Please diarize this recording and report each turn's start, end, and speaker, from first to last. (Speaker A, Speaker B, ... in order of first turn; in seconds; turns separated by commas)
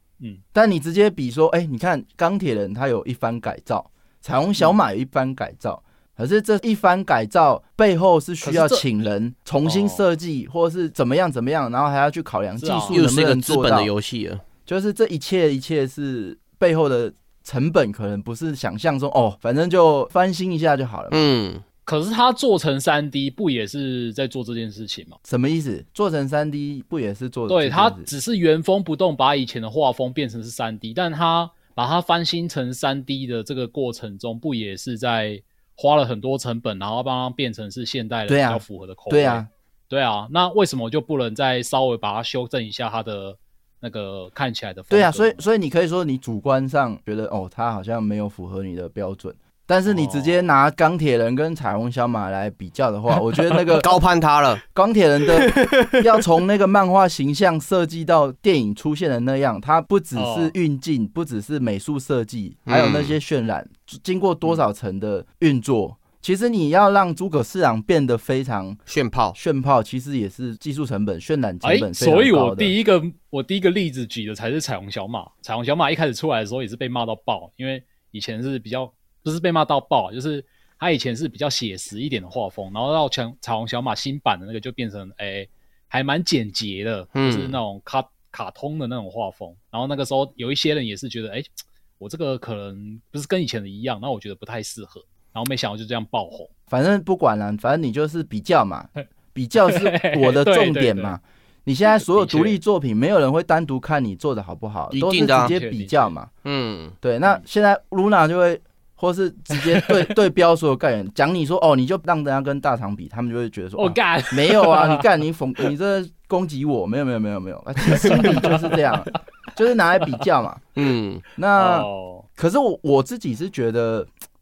Speaker A: 0.5-13.9, Speaker B: 8.4-8.8, Speaker B: 9.6-10.0, Speaker B: 12.6-12.9, Speaker C: 12.9-14.4, Speaker A: 14.7-21.2, Speaker C: 21.1-21.6, Speaker B: 21.9-25.2, Speaker A: 25.2-28.1, Speaker B: 27.5-45.4, Speaker A: 38.3-39.5, Speaker A: 44.9-53.9, Speaker B: 49.9-50.5, Speaker C: 53.6-54.6, Speaker A: 54.7-68.8, Speaker C: 55.3-56.2, Speaker B: 60.1-60.5, Speaker C: 62.7-63.2, Speaker C: 68.9-69.3, Speaker A: 69.3-72.8, Speaker B: 71.6-96.5, Speaker C: 87.1-87.6, Speaker A: 96.7-106.3, Speaker B: 99.6-101.2, Speaker B: 102.0-102.6, Speaker C: 104.9-105.5, Speaker B: 105.3-106.1, Speaker C: 106.4-106.9, Speaker A: 107.0-120.7, Speaker B: 113.8-115.0, Speaker B: 117.9-118.9, Speaker C: 120.8-121.2, Speaker A: 121.3-124.1, Speaker B: 121.5-122.2